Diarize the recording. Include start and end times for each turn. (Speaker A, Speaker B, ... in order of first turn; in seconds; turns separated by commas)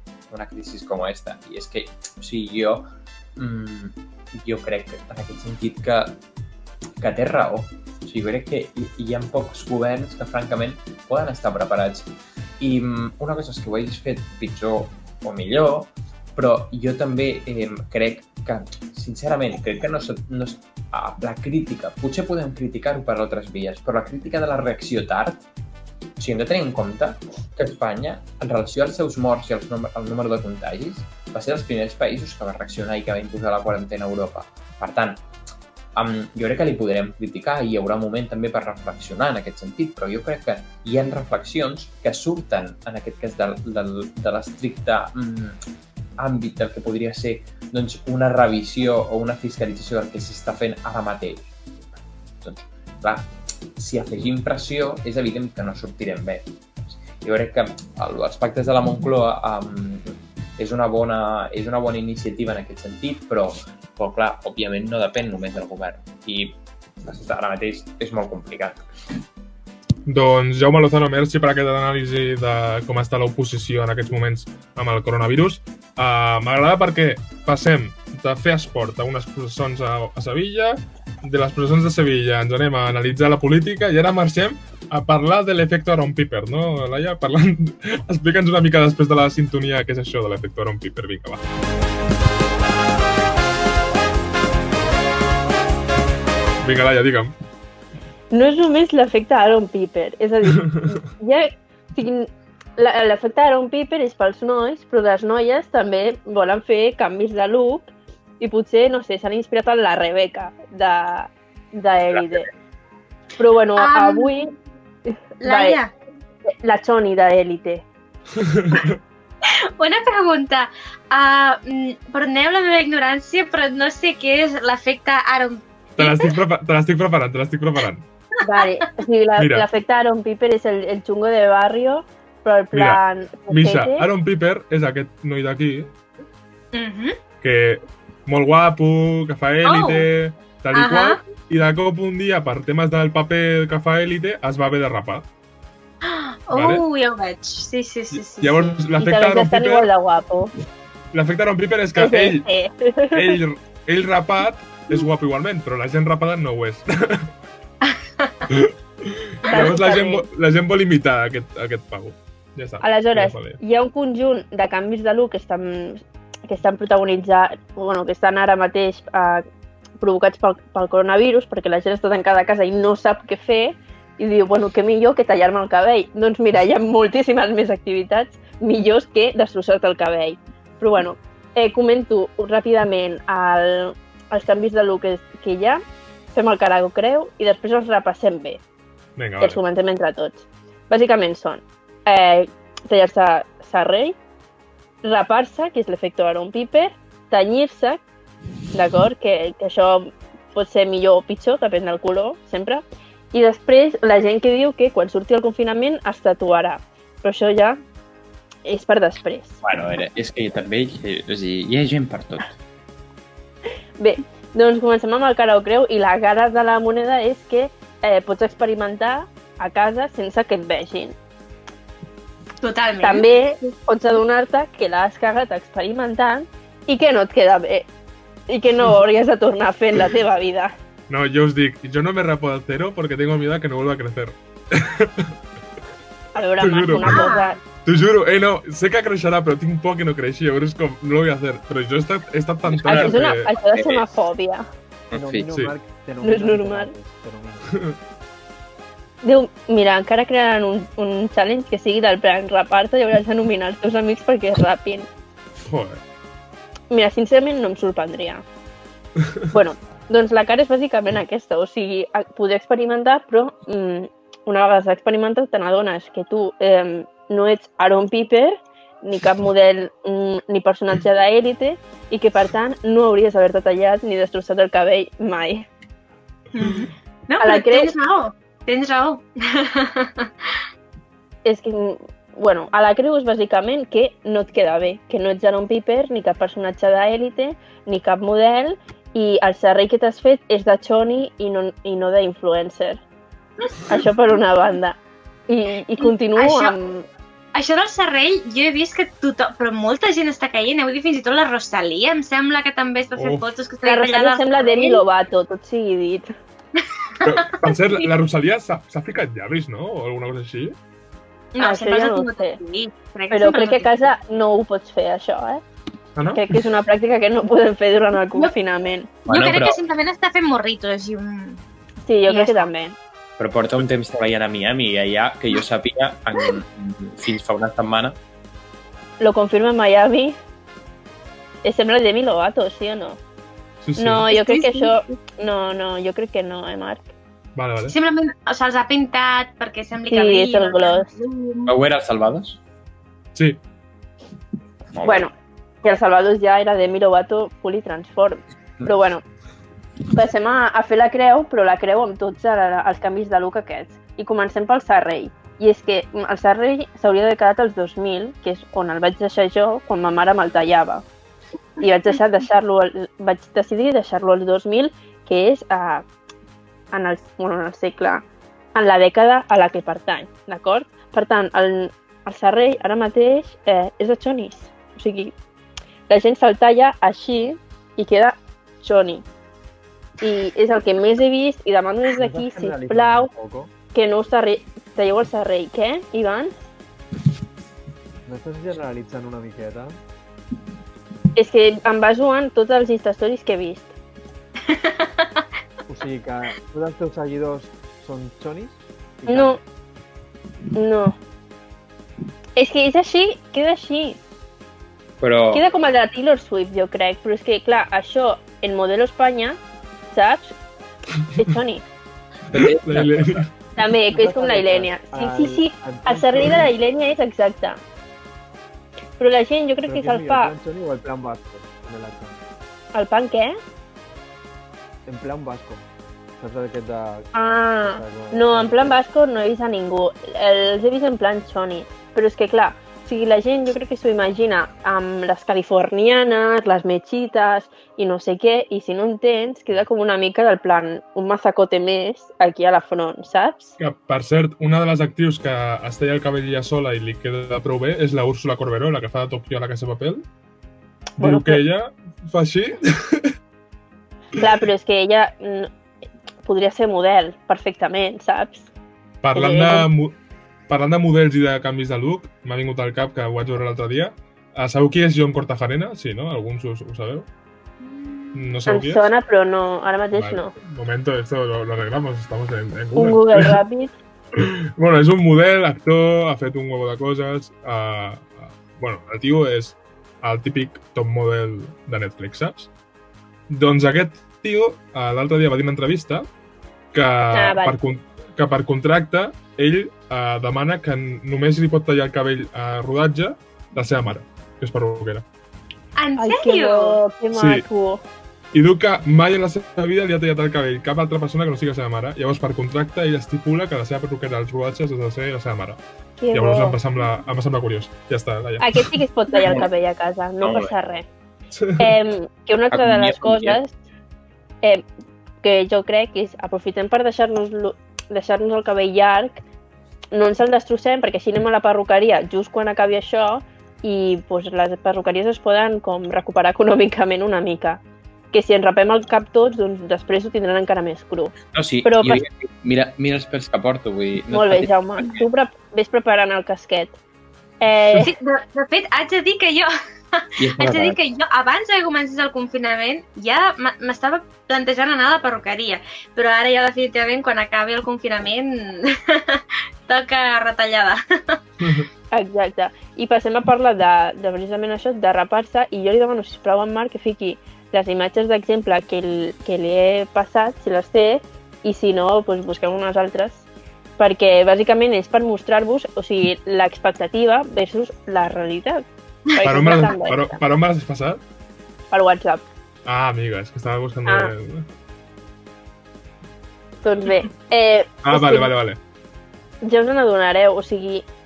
Speaker A: 0.3-6.2, Speaker A: 7.0-12.1, Speaker A: 12.6-25.4, Speaker A: 26.2-35.2, Speaker A: 36.0-45.6, Speaker A: 46.2-68.9, Speaker B: 70.1-91.4, Speaker B: 96.6-97.3, Speaker C: 98.3-112.5, Speaker C: 113.4-114.5, Speaker D: 113.8-114.3, Speaker C: 115.1-115.8, Speaker D: 115.4-115.9, Speaker C: 116.5-117.8, Speaker B: 118.4-119.0, Speaker D: 119.5-126.3, Speaker B: 126.0-128.0, Speaker C: 128.4-134.1, Speaker B: 129.4-129.7, Speaker B: 132.7-135.9, Speaker D: 136.7-137.2, Speaker B: 137.4-145.3, Speaker D: 139.6-140.1, Speaker D: 140.7-141.2, Speaker D: 146.0-148.8, Speaker B: 146.5-146.8, Speaker B: 148.1-149.9, Speaker C: 149.0-150.5, Speaker B: 151.1-152.5, Speaker C: 152.0-153.4, Speaker B: 153.1-157.3, Speaker D: 157.8-158.3, Speaker B: 158.4-163.6, Speaker C: 159.5-160.3, Speaker C: 162.8-169.4, Speaker C: 170.0-185.8, Speaker C: 186.3-188.6, Speaker B: 189.2-189.6, Speaker C: 189.4-194.2, Speaker C: 195.0-198.0, Speaker C: 198.7-207.8, Speaker C: 208.7-209.6, Speaker A: 209.6-212.6, Speaker C: 214.0-221.2, Speaker D: 222.6-223.3, Speaker C: 223.0-227.9, Speaker C: 228.5-230.8, Speaker B: 231.1-235.3, Speaker C: 236.3-237.6, Speaker B: 236.6-237.3, Speaker D: 237.1-237.5, Speaker B: 237.8-243.5, Speaker A: 242.7-244.1, Speaker C: 242.9-244.7, Speaker A: 245.1-245.5, Speaker E: 245.1-247.7, Speaker C: 246.2-246.9, Speaker B: 247.7-247.9, Speaker C: 249.2-255.1, Speaker B: 255.6-256.0, Speaker C: 256.9-258.4, Speaker B: 259.2-259.5, Speaker C: 259.5-275.7, Speaker D: 276.5-280.5, Speaker C: 277.4-277.9, Speaker C: 281.4-293.0, Speaker C: 293.9-297.1, Speaker D: 296.0-296.8, Speaker D: 297.5-305.0, Speaker B: 303.2-303.4, Speaker C: 303.9-306.4, Speaker D: 307.2-308.1, Speaker B: 307.2-310.8, Speaker D: 311.6-313.9, Speaker C: 311.6-312.6, Speaker C: 313.3-315.6, Speaker B: 316.2-316.4, Speaker C: 316.3-319.1, Speaker D: 319.3-321.6, Speaker A: 319.3-319.8, Speaker C: 322.1-323.0, Speaker D: 322.3-322.7, Speaker A: 323.4-328.2, Speaker C: 329.2-330.4, Speaker C: 331.6-333.2, Speaker B: 333.8-334.3, Speaker C: 334.0-337.1, Speaker D: 334.3-335.0, Speaker B: 337.6-337.9, Speaker D: 337.9-341.7, Speaker C: 340.1-341.1, Speaker A: 341.7-342.6, Speaker B: 343.4-343.6, Speaker A: 344.9-345.3, Speaker C: 345.0-345.3, Speaker C: 345.8-349.2, Speaker C: 350.1-361.1, Speaker C: 361.8-366.1, Speaker C: 366.9-375.3, Speaker C: 376.1-379.2, Speaker C: 380.2-383.3, Speaker E: 382.2-383.7, Speaker C: 383.9-386.5, Speaker E: 388.3-390.0, Speaker C: 391.4-393.9, Speaker D: 394.7-395.4, Speaker E: 395.9-399.6, Speaker C: 399.3-399.6, Speaker C: 400.8-401.2, Speaker C: 402.6-404.2, Speaker A: 405.2-405.6, Speaker C: 405.5-409.6, Speaker C: 410.1-410.6, Speaker C: 411.4-411.9, Speaker A: 412.5-413.4, Speaker B: 412.5-413.5, Speaker C: 413.8-417.8, Speaker E: 414.1-416.7, Speaker C: 419.2-420.5, Speaker E: 419.9-422.4, Speaker C: 422.9-423.6, Speaker E: 425.1-425.9, Speaker E: 426.4-429.0, Speaker C: 427.3-443.8, Speaker B: 443.8-450.2, Speaker C: 451.2-451.6, Speaker B: 451.2-453.3, Speaker C: 454.4-455.7, Speaker C: 456.4-458.7, Speaker B: 459.2-460.1, Speaker C: 459.3-459.9, Speaker B: 460.7-467.3, Speaker B: 468.3-469.1, Speaker C: 468.7-470.5, Speaker B: 470.1-473.6, Speaker C: 472.9-473.9, Speaker B: 474.4-482.7, Speaker B: 483.5-486.3, Speaker B: 486.9-495.2, Speaker C: 487.3-487.8, Speaker D: 496.0-497.0, Speaker C: 496.2-498.0, Speaker B: 497.3-497.6, Speaker B: 498.5-505.8, Speaker C: 506.2-506.8, Speaker B: 506.3-509.0, Speaker C: 508.6-511.1, Speaker A: 509.4-509.7, Speaker A: 510.4-510.7, Speaker B: 511.6-511.9, Speaker C: 511.8-513.8, Speaker A: 512.7-513.6, Speaker C: 515.4-519.4, Speaker C: 520.1-532.2, Speaker A: 531.5-535.2, Speaker C: 534.3-537.0, Speaker C: 537.6-538.1, Speaker D: 538.0-551.4, Speaker A: 540.4-541.0, Speaker B: 551.6-551.9, Speaker C: 552.1-563.4, Speaker C: 564.0-570.4, Speaker B: 569.4-571.2, Speaker C: 571.9-572.4, Speaker B: 572.9-574.7, Speaker C: 574.1-574.3, Speaker C: 576.8-578.5, Speaker B: 578.0-578.8, Speaker C: 579.6-581.1